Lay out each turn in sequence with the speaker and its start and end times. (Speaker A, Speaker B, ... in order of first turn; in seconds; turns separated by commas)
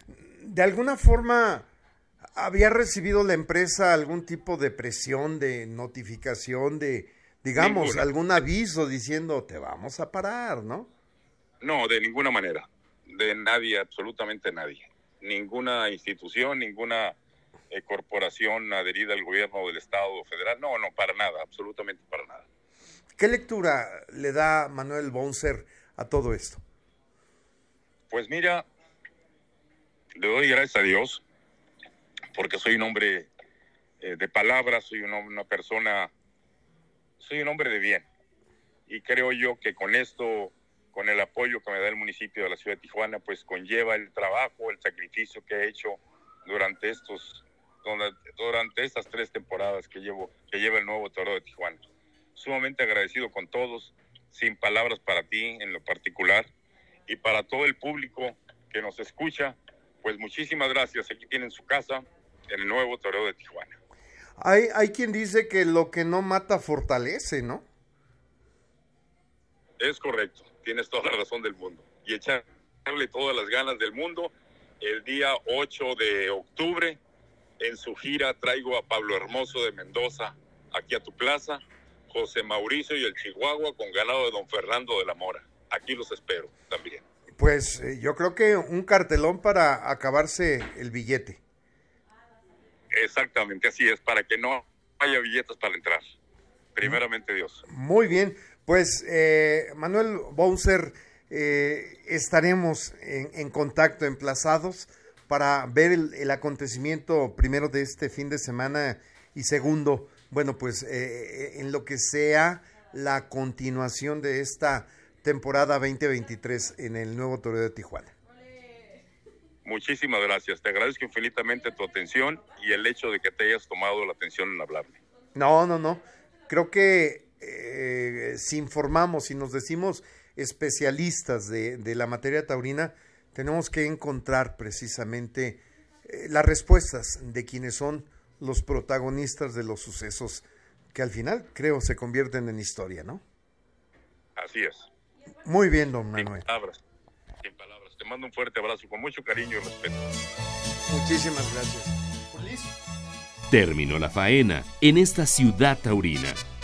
Speaker A: 0.2-1.7, Speaker A: 2.3-10.9, Speaker B: 7.5-8.1, Speaker B: 11.6-17.1, Speaker B: 17.7-22.4, Speaker A: 23.2-26.6, Speaker B: 28.1-28.7, Speaker B: 30.1-31.2, Speaker B: 32.3-33.3, Speaker B: 34.0-36.1, Speaker B: 37.2-38.1, Speaker B: 38.9-51.8, Speaker B: 52.3-56.5, Speaker B: 57.1-63.7, Speaker A: 64.4-67.6, Speaker B: 69.8-77.0, Speaker B: 77.6-87.0, Speaker A: 87.4-91.4, Speaker B: 92.9-96.0, Speaker B: 96.7-97.6, Speaker A: 97.7-118.1, Speaker B: 119.6-125.0, Speaker A: 125.3-143.2, Speaker B: 144.4-144.9, Speaker A: 145.4-146.4, Speaker B: 146.2-146.8, Speaker B: 147.4-150.1, Speaker A: 150.9-152.7, Speaker C: 153.5-156.4